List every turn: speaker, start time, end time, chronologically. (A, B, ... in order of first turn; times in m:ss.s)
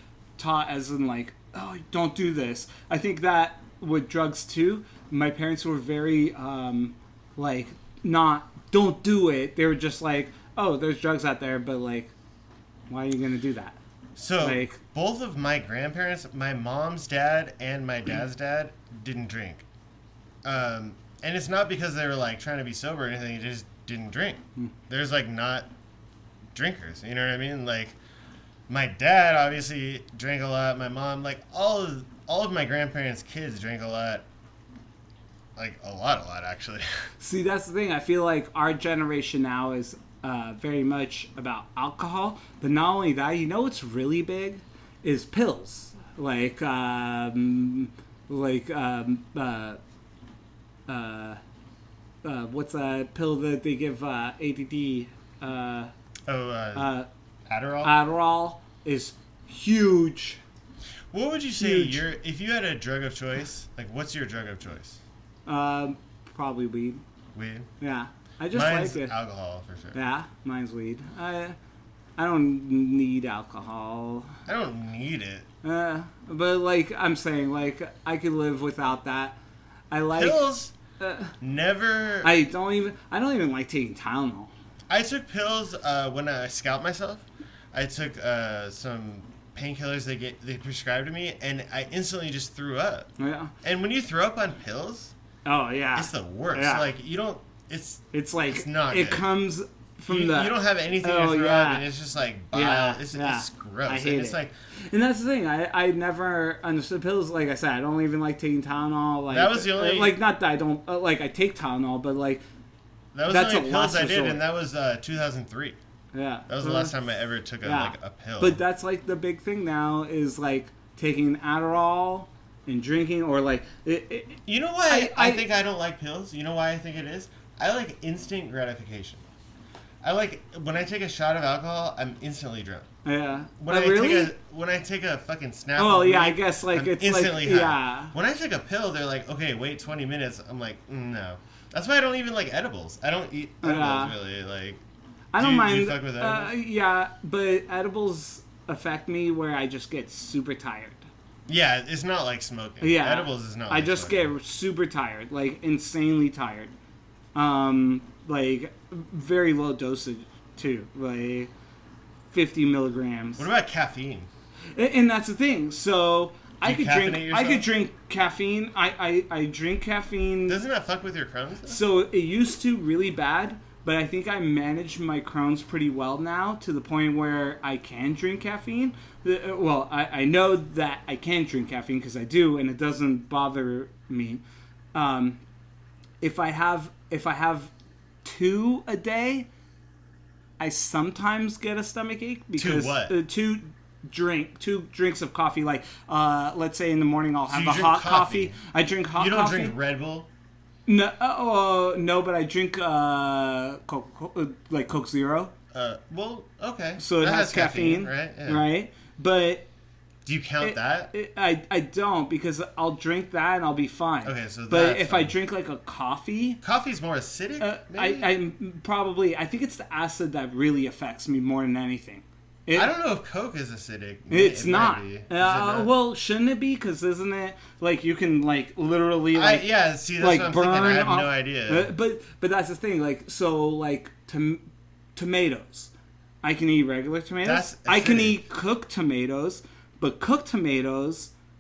0:00.4-0:12.1 A
0:12.9-0:13.8 A
0:14.2-0:19.6 B
0:14.4-0:14.8 A
0:20.4-0:25.7 B
0:26.6-0:28.0 B
0:28.7-0:34.3 B
0:35.6-0:36.9 B
0:37.2-0:49.8 A
0:50.9-0:51.4 A
0:52.2-0:55.9 A
0:56.3-0:56.9 B
0:56.8-0:57.1 A
0:57.5-0:57.9 B
0:57.8-1:00.4 A
1:01.1-1:05.0 B
1:01.6-1:02.0 A
1:05.5-1:07.0 A
1:07.3-1:07.7 B
1:07.8-1:09.1 A
1:08.5-1:10.0 B
1:09.9-1:11.6 A
1:12.2-1:14.4 A
1:14.5-1:15.5 B
1:15.6-1:19.4 A
1:19.9-1:20.4 A
1:20.1-1:20.7 B
1:21.0-1:21.3 A
1:21.4-1:22.4 B
1:22.2-1:24.5 A
1:24.9-1:33.1 B
1:33.2-1:33.5 A
1:33.6-1:35.1 B
1:35.5-1:36.9 A
1:36.0-1:39.3 B
1:38.1-1:41.8 A
1:40.1-1:44.5 B
1:42.5-1:44.4 A
1:44.9-1:52.4 A
1:49.3-1:50.2 B
1:53.1-1:55.8 B
1:53.3-1:54.4 A
1:56.1-1:57.0 A
1:56.5-1:58.6 B
1:57.6-2:05.4 A
2:04.5-2:09.3 B
2:10.0-2:12.9 B
2:13.0-2:14.3 A
2:13.6-2:24.8 B
2:15.8-2:18.1 A
2:23.6-2:24.2 A
2:25.3-2:31.1 A
2:25.4-2:26.5 B
2:31.5-2:34.3 B
2:32.8-2:36.7 A
2:37.4-2:41.5 A
2:42.3-2:43.5 A
2:43.4-2:44.3 B
2:44.8-2:50.6 A
2:46.6-2:47.7 B
2:50.5-2:51.8 B
2:51.7-3:04.4 A
3:04.9-3:05.4 A
3:06.2-3:07.7 A
3:08.2-3:09.5 A
3:10.6-3:19.8 A
3:12.6-3:13.2 B
3:17.5-3:18.6 B
3:19.2-3:20.3 B
3:20.9-3:25.5 A
3:25.7-3:28.6 B
3:27.0-3:29.7 A
3:30.2-3:31.1 B
3:30.6-3:36.6 A
3:34.2-3:35.3 B
3:36.6-3:38.3 B
3:37.6-3:42.9 A
3:42.7-3:45.9 B
3:44.3-3:49.7 A
3:49.3-3:51.9 B
3:50.2-3:54.6 A
3:55.2-3:55.9 A
3:56.4-4:01.3 A
3:57.4-3:58.4 B